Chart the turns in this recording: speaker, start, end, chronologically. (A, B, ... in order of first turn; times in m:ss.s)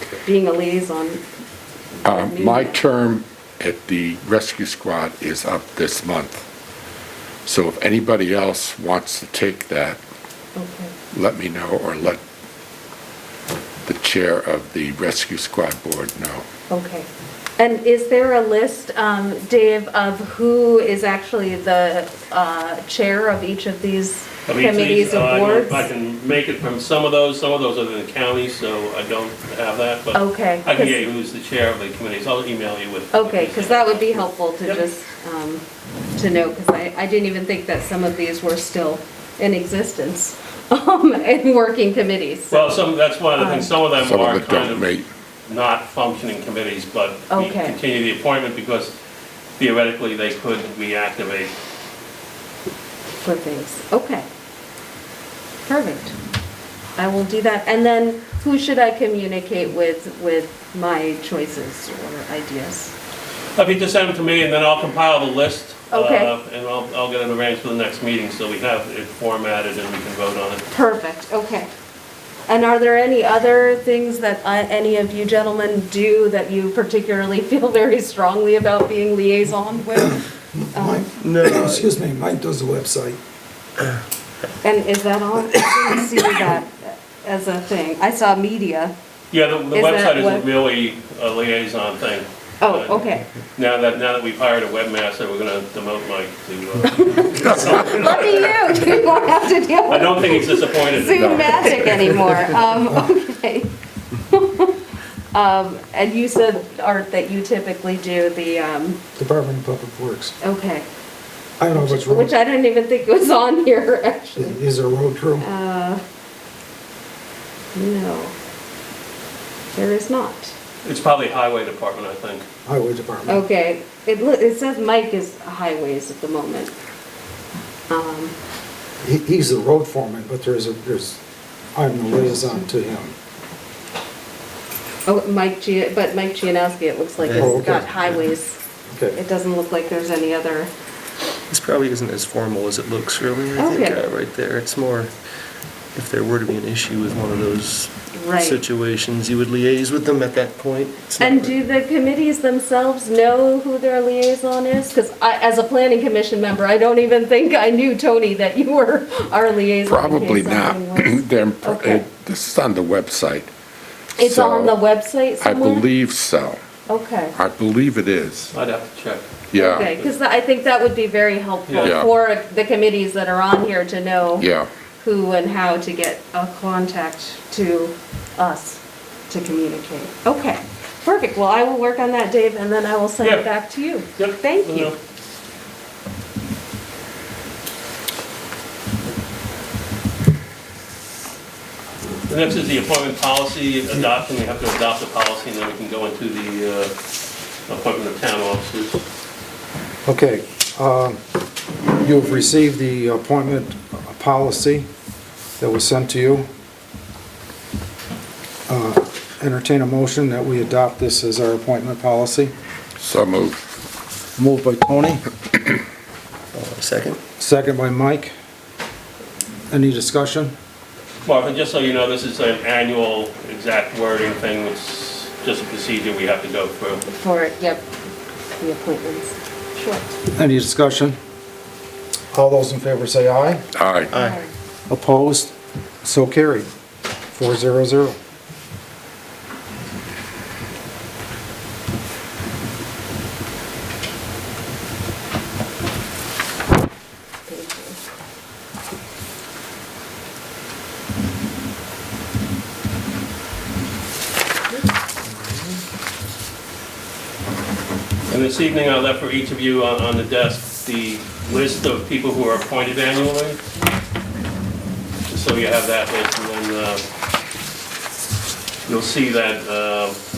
0:00.2-0:01.2 A
0:02.0-0:02.8 A
0:02.0-0:06.4 B
0:07.4-0:10.0 B
0:10.6-0:10.9 A
0:11.1-0:12.2 B
0:13.8-0:16.4 B
0:16.7-0:25.9 A
0:24.5-0:34.8 C
0:30.1-0:31.1 A
0:33.1-0:35.6 A
0:36.2-0:42.7 A
0:42.5-0:45.0 C
0:43.4-0:43.7 A
0:44.0-0:45.1 B
0:45.5-0:49.0 C
0:47.3-0:47.8 A
0:49.6-0:51.5 C
0:53.2-0:54.3 A
0:55.7-0:56.2 A
0:57.0-1:03.0 A
1:03.6-1:10.6 C
1:05.9-1:06.3 A
1:10.7-1:11.7 A
1:12.5-1:21.0 A
1:20.6-1:23.2 D
1:21.2-1:21.9 E
1:24.6-1:29.0 A
1:29.3-1:38.8 C
1:29.7-1:30.5 A
1:32.6-1:33.3 A
1:36.8-1:43.7 A
1:39.9-1:42.5 C
1:41.2-1:42.1 B
1:42.7-1:43.1 D
1:44.3-1:49.0 A
1:49.2-1:50.4 D
1:50.4-1:50.9 A
1:51.6-1:52.3 D
1:51.7-1:54.6 A
1:54.4-1:55.5 D
1:55.4-1:56.0 A
1:57.7-1:58.3 A
1:59.7-2:00.5 A
2:00.8-2:02.4 C
2:02.6-2:03.4 D
2:03.3-2:06.7 A
2:07.9-2:08.4 A
2:09.0-2:11.2 D
2:11.7-2:13.2 D
2:15.1-2:18.6 A
2:17.2-2:18.2 E
2:17.4-2:17.9 D
2:18.9-2:19.2 D
2:19.1-2:20.7 A
2:21.5-2:25.1 E
2:23.6-2:24.1 A
2:25.9-2:31.6 E
2:28.1-2:28.6 A
2:31.2-2:42.1 A
2:39.9-2:43.5 B
2:44.2-2:45.8 A
2:44.2-2:44.8 B
2:45.4-2:46.6 B
2:46.9-2:47.4 A
2:47.4-2:48.5 B
2:48.5-2:50.1 C
2:49.5-2:49.9 B
2:49.6-3:04.9 A
2:51.7-2:52.0 C
2:51.8-2:52.1 B
2:54.4-2:54.7 B
3:03.2-3:03.5 C
3:04.2-3:05.0 C
3:12.3-3:16.9 C
3:17.7-3:19.0 C
3:20.0-3:21.2 D
3:22.0-3:24.9 D
3:25.6-3:26.5 D
3:28.7-3:32.5 D
3:33.0-3:33.6 B
3:34.4-3:35.2 D
3:36.5-3:37.2 E
3:37.4-3:38.3 D
3:39.7-3:40.5 D
3:41.2-3:47.0 C
3:47.1-3:47.9 A
3:48.6-3:50.1 A
3:50.4-3:51.2 D
3:52.3-3:53.6 D
3:53.8-3:54.1 B
3:54.1-3:54.4 E
3:54.1-3:54.5 A
3:54.9-3:56.7 D
3:57.3-3:58.2 D
4:07.5-4:08.0 A
4:18.3-4:23.6 C
4:25.3-4:27.0 C
4:28.9-4:30.2 C